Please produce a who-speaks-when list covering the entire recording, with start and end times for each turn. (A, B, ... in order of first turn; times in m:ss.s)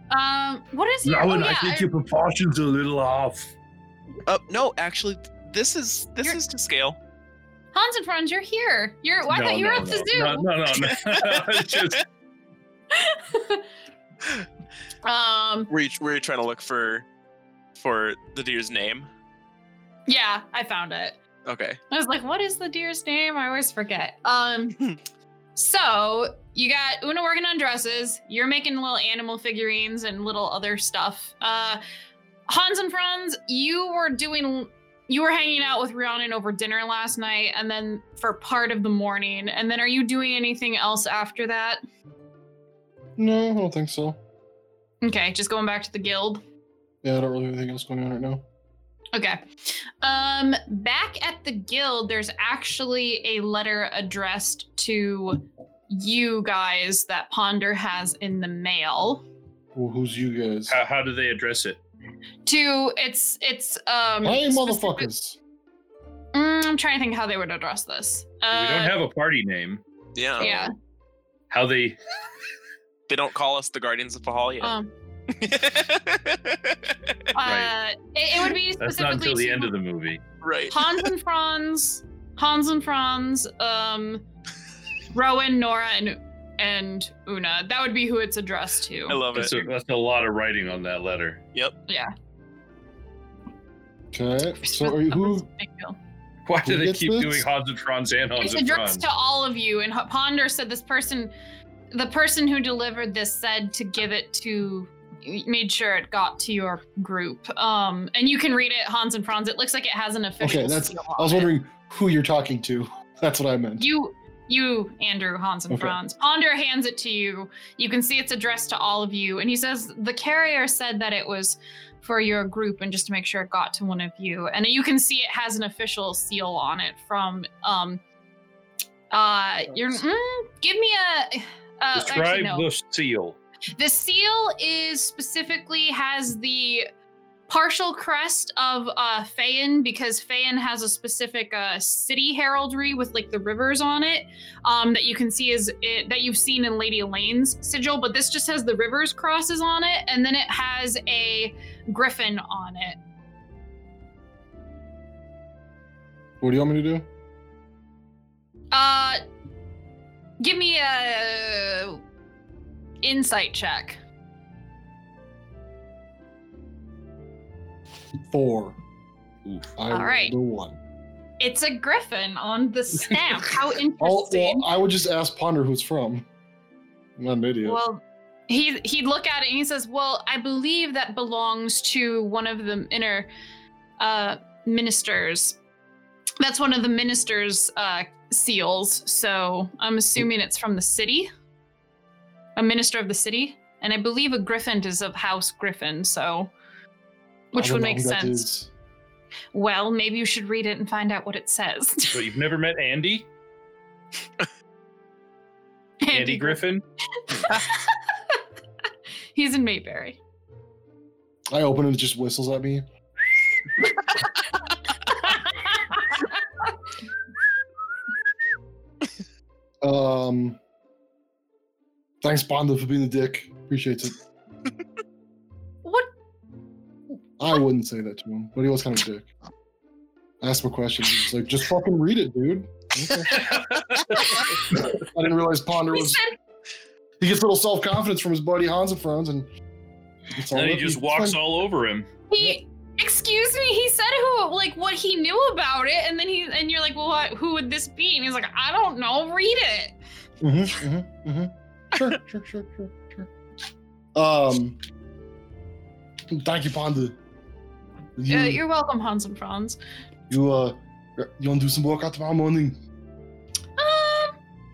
0:00.1-0:01.9 A
0:01.0-0:03.5 B
0:04.3-0:07.0 C
0:07.7-0:10.5 A
0:09.3-0:12.0 B
0:10.8-0:12.0 C
0:12.9-0:13.7 A
0:15.0-0:15.7 A
0:15.7-0:17.1 C
0:17.8-0:19.1 C
0:20.1-0:21.2 A
0:21.4-0:21.8 C
0:21.9-0:24.8 A
0:25.6-0:31.8 A
0:32.5-0:41.8 A
0:43.2-0:44.2 D
0:45.0-0:46.4 A
0:47.0-0:48.4 D
0:49.1-0:59.3 A
0:59.8-1:00.8 D
1:00.7-1:01.8 B
1:02.5-1:05.1 A
1:04.2-1:05.4 D
1:06.3-1:08.9 A
1:08.5-1:09.8 B
1:10.2-1:10.7 C
1:10.4-1:10.7 A
1:11.5-1:12.0 B
1:13.1-1:14.8 C
1:14.6-1:14.9 A
1:15.3-1:17.2 C
1:17.3-1:19.7 A
1:17.4-1:17.7 B
1:18.8-1:20.2 B
1:20.4-1:21.1 C
1:20.7-1:24.2 A
1:25.1-1:29.2 A
1:29.1-1:29.6 C
1:29.4-1:31.4 B
1:31.9-1:32.1 A
1:34.1-1:35.5 D
1:34.6-1:36.0 A
1:36.5-1:39.0 B
1:36.6-1:37.4 D
1:38.4-1:41.3 A
1:41.9-1:51.5 A
1:50.4-1:53.9 D
1:53.8-2:08.0 A
1:55.7-1:56.0 D
2:09.1-2:12.7 A
2:12.0-2:13.4 B
2:13.8-2:16.9 A
2:17.5-2:33.0 A
2:36.4-2:37.1 D
2:38.7-2:39.2 A
2:40.4-2:42.0 A
2:43.0-2:44.0 A
2:48.3-2:48.8 D
2:49.4-2:49.7 B
2:49.8-2:50.8 D
2:49.9-2:50.3 A
2:51.4-2:54.7 A
2:54.0-2:56.3 D
2:57.2-2:57.8 D
2:57.6-3:03.3 A
3:04.0-3:05.6 A
3:06.4-3:11.3 A
3:12.6-3:16.5 A
3:17.5-3:18.5 A
3:17.6-3:18.7 D
3:19.5-3:22.2 A
3:22.1-3:23.3 B
3:26.0-3:26.6 A
3:26.1-3:26.8 B
3:27.3-3:28.0 A
3:29.4-3:30.2 A
3:31.5-3:32.8 D
3:35.1-3:36.2 A
3:39.8-3:40.6 D
3:42.2-3:44.2 D
3:45.8-3:46.1 A
3:47.4-3:49.3 D
3:50.4-3:53.4 D
3:53.5-3:54.4 B
3:54.7-3:56.2 D
3:55.9-3:56.3 A
3:57.2-3:59.5 D
4:00.3-4:01.4 D
4:00.5-4:02.1 B
4:02.3-4:10.0 A
4:10.4-4:13.3 D
4:14.2-4:14.8 D
4:16.3-4:17.2 D
4:18.2-4:18.6 D
4:18.3-4:19.8 A
4:20.3-4:22.8 D
4:23.8-4:24.4 A